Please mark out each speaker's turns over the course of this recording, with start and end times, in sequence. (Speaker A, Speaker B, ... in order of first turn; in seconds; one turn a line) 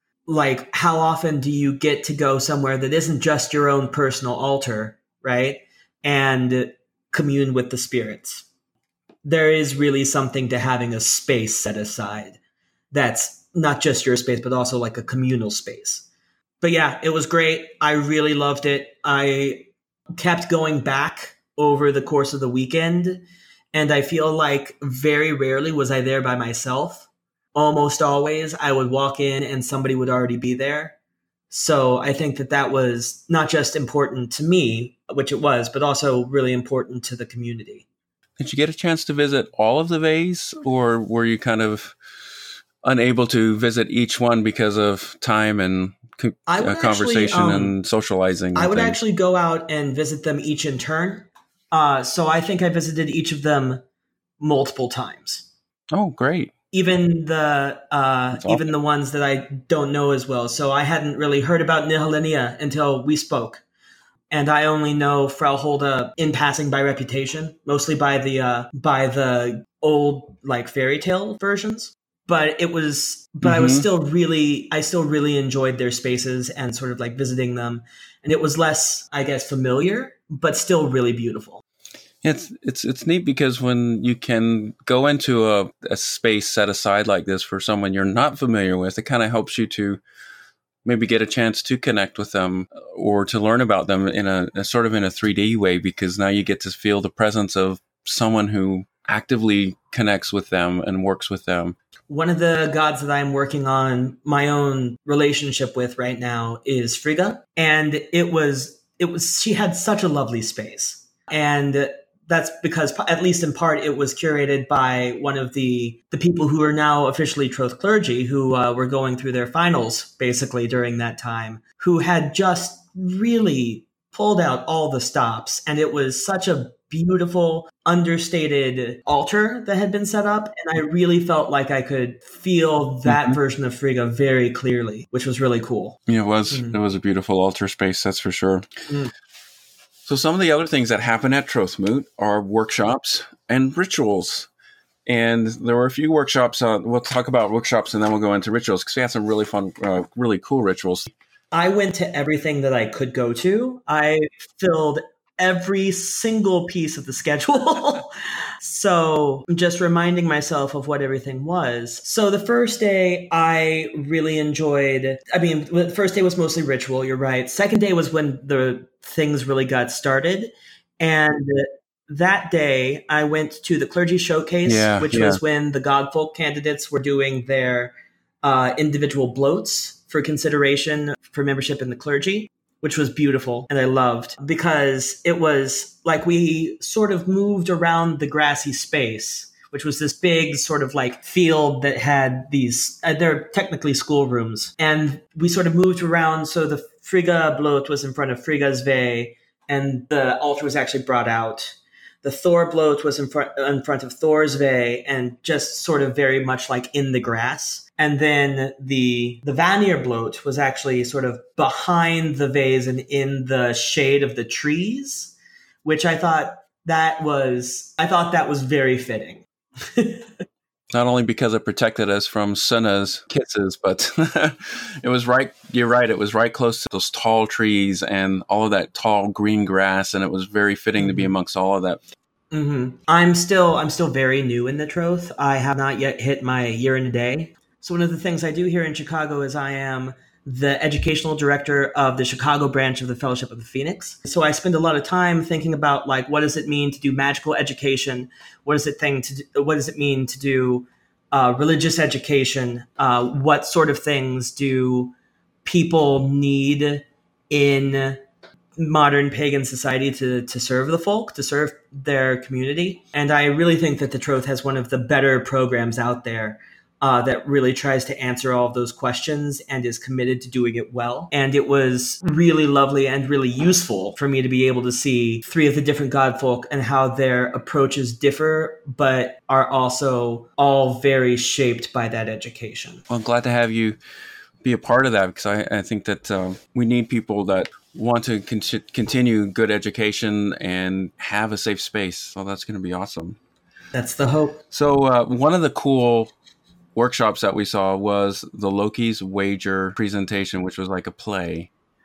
Speaker A: 0.3-8.4
Speaker A: 9.2-12.4
Speaker A: 12.9-16.1
Speaker A: 16.6-30.9
Speaker A: 31.5-37.9
Speaker B: 38.4-42.0
Speaker B: 42.8-49.0
Speaker A: 46.5-47.8
Speaker A: 48.5-53.8
Speaker A: 54.4-55.5
Speaker B: 55.9-56.5
Speaker A: 56.7-63.6
Speaker A: 64.3-81.6
Speaker B: 73.4-73.9
Speaker B: 82.2-90.0
Speaker B: 90.8-101.8
Speaker A: 102.1-136.0
Speaker B: 133.1-133.4
Speaker B: 136.1-138.7
Speaker A: 136.5-136.8
Speaker B: 140.1-144.5
Speaker B: 145.1-151.1
Speaker A: 151.5-220.4
Speaker B: 174.7-175.4
Speaker B: 220.9-232.0
Speaker A: 231.0-231.3
Speaker A: 232.5-255.1
Speaker A: 255.7-258.2
Speaker A: 258.8-283.0
Speaker B: 283.1-284.0
Speaker B: 284.6-293.4
Speaker A: 293.9-294.6
Speaker B: 294.7-296.3
Speaker B: 296.9-301.7